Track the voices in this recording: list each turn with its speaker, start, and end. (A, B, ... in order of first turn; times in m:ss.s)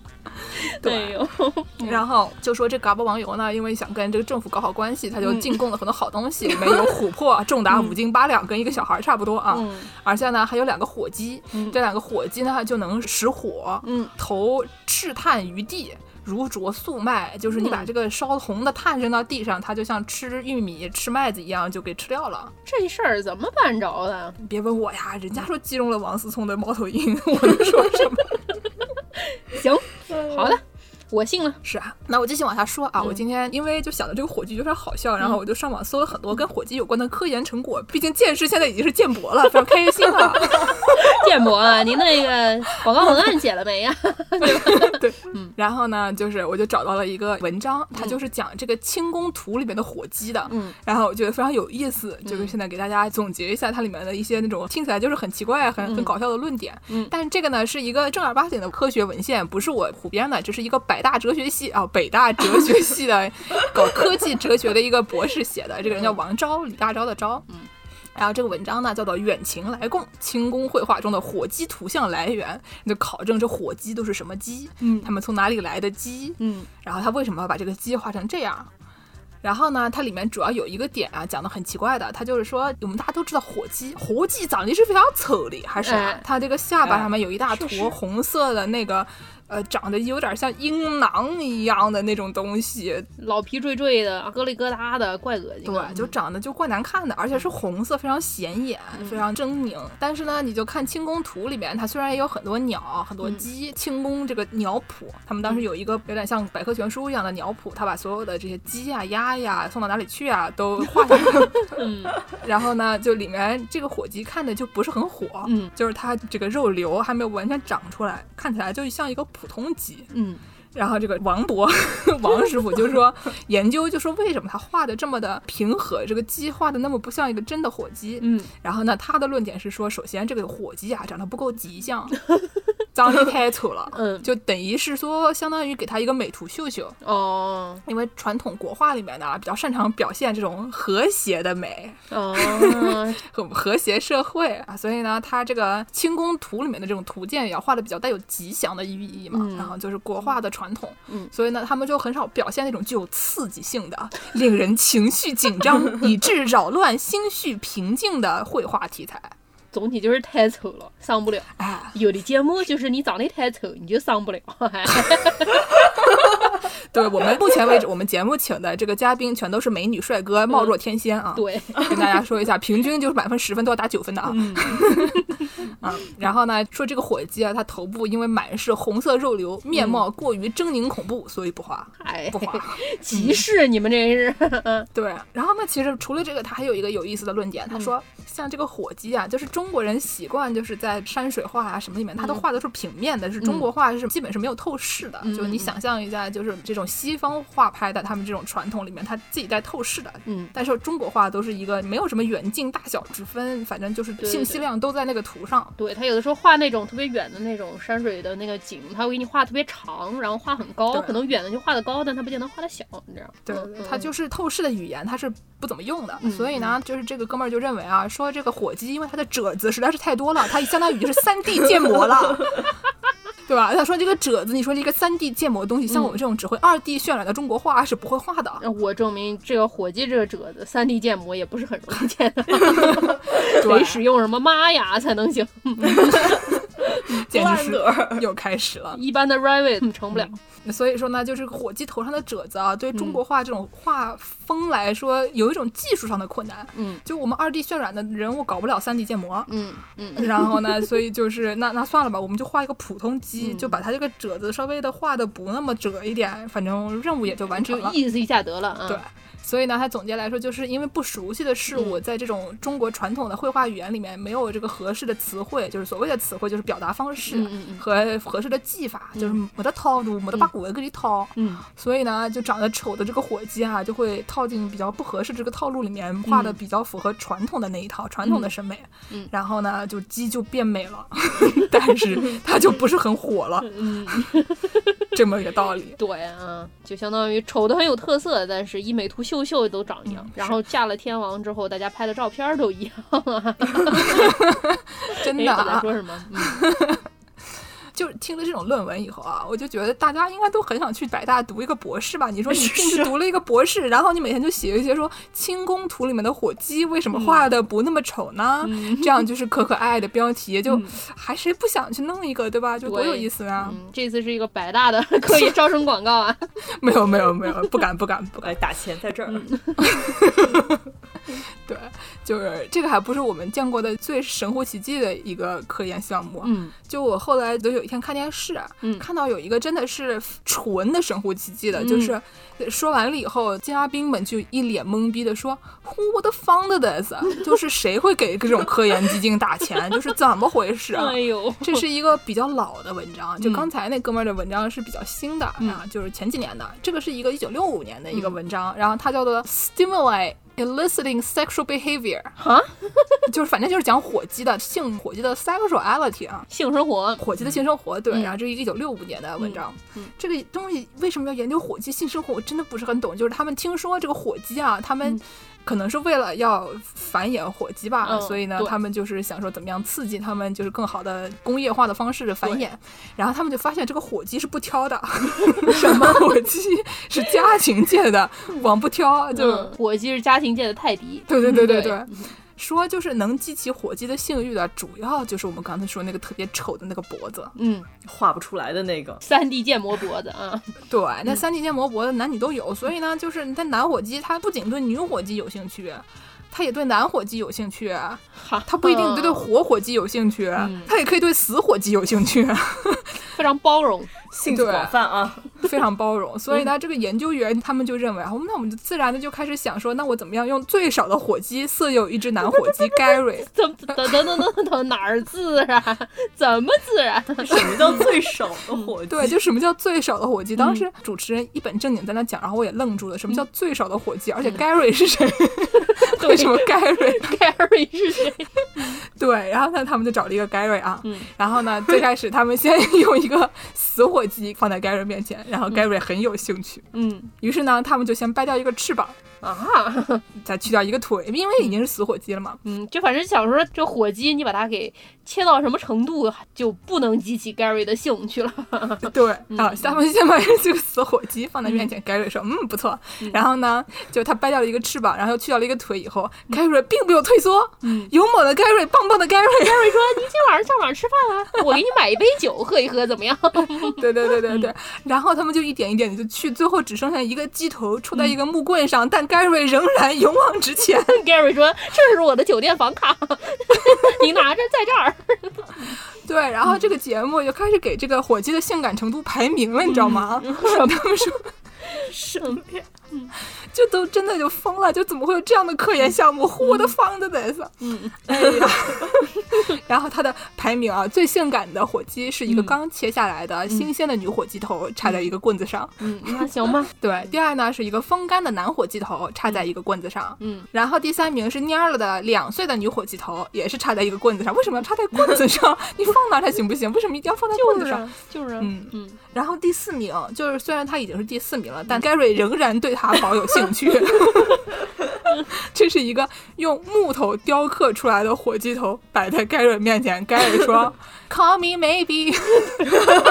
0:00.6-0:02.0 A
0:00.8-0:01.2 B
0:01.8-0:22.5 B
0:05.2-0:05.6 A
0:07.7-0:08.0 A
0:09.5-0:09.9 A
0:11.5-0:11.8 A
0:13.8-0:14.1 A
0:17.6-0:17.9 A
0:22.6-0:24.4 A
0:24.4-0:28.4 B
0:29.3-0:31.6 A
0:31.6-0:41.0 B
0:40.2-0:45.5 A
0:44.4-1:07.4 B
0:50.5-0:50.8 A
0:52.2-0:52.5 A
0:55.8-0:56.1 A
1:08.1-1:18.7 B
1:14.8-1:15.1 A
1:16.4-1:16.7 A
1:19.4-1:33.1 B
1:25.8-1:26.2 A
1:27.5-1:27.9 A
1:33.2-1:36.1 A
1:35.6-2:00.1 B
1:38.9-1:39.2 A
1:51.7-1:52.2 A
1:55.4-1:55.7 A
2:00.1-2:00.4 A
2:00.8-2:12.2 B
2:08.2-2:08.5 A
2:12.9-2:17.0 B
2:13.9-2:14.3 A
2:17.0-2:17.8 A
2:17.9-2:39.3 B
2:22.1-2:23.2 A
2:29.3-2:29.8 A
2:39.7-2:45.7 A
2:41.6-2:42.0 B
2:46.2-3:03.4 B
2:51.4-2:51.9 A
2:54.2-2:55.5 A
2:59.7-3:00.0 A
3:02.0-3:04.9 A
3:04.9-3:25.8 B
3:13.4-3:13.7 A
3:15.2-3:15.8 A
3:20.3-3:20.5 A
3:24.2-3:24.6 A
3:25.8-3:34.1 A
3:30.9-3:31.2 B
3:33.4-3:42.6 B
3:36.2-3:36.8 A
3:43.4-3:48.6 B
3:45.9-3:46.2 A
3:48.6-3:57.2 A
3:52.6-3:54.0 B
3:55.9-3:59.0 B
3:57.1-3:58.3 C
3:58.9-4:00.4 A
4:00.1-4:09.5 B
4:02.9-4:03.2 A
4:06.8-4:07.0 A
4:09.5-4:10.9 A
4:10.2-4:18.0 B
4:13.4-4:13.8 A
4:17.5-4:19.0 A
4:18.9-4:44.3 B
4:21.7-4:22.0 A
4:27.3-4:27.8 A
4:31.4-4:31.6 A
4:36.3-4:36.6 A
4:38.2-4:38.5 A
4:43.6-4:44.9 A
4:45.1-4:46.0 B
4:46.0-4:54.5 A
4:50.1-4:50.6 B
4:53.9-4:57.1 B
4:55.1-4:56.8 A
4:57.9-5:13.8 B
5:02.5-5:03.2 C
5:07.1-5:07.5 A
5:08.6-5:09.2 A
5:10.7-5:11.0 A
5:12.8-5:16.5 A
5:16.7-5:18.6 B
5:18.4-5:19.5 C
5:19.3-5:20.0 A
5:19.8-5:20.8 B
5:21.6-5:52.4 B
5:26.4-5:26.7 A
5:31.8-5:32.2 A
5:40.9-5:41.9 A
5:43.4-5:43.7 A
5:52.4-5:53.3 A
5:53.3-5:56.5 B
5:56.5-5:57.3 A
5:57.2-6:19.7 B
5:59.4-6:00.1 A
6:08.0-6:08.8 A
6:15.6-6:16.3 A
6:19.3-6:22.3 A
6:21.3-6:27.5 B
6:27.6-6:27.9 A
6:28.0-6:29.2 C
6:29.2-6:30.7 A
6:30.9-6:43.3 B
6:38.4-6:39.5 A
6:40.6-6:40.9 A
6:43.3-6:44.1 A
6:44.3-6:45.5 C
6:44.5-6:44.9 B
6:45.6-6:54.2 B
6:53.4-6:58.1 A
6:57.4-6:59.4 C
6:59.1-7:07.4 B
7:00.6-7:00.8 A
7:05.7-7:09.0 A
7:08.8-7:16.9 B
7:11.0-7:11.3 A
7:16.9-7:17.3 A
7:17.4-7:19.2 B
7:19.4-7:20.2 A
7:20.4-7:22.6 B
7:22.6-7:30.0 A
7:29.0-7:40.2 B
7:31.6-7:31.9 A
7:37.8-7:38.1 A
7:39.6-7:44.7 A
7:43.8-7:51.2 B
7:51.1-7:56.0 A
7:53.9-7:54.2 B
7:56.2-8:01.5 B
7:59.8-8:01.3 A
8:01.9-8:03.3 A
8:02.1-8:02.8 C
8:03.7-8:28.0 B
8:06.6-8:06.9 A
8:07.8-8:08.6 A
8:12.5-8:12.8 A
8:15.0-8:15.3 A
8:16.0-8:16.9 A
8:20.4-8:20.7 A
8:27.6-8:29.2 A
8:28.6-8:34.7 B
8:35.5-8:43.0 B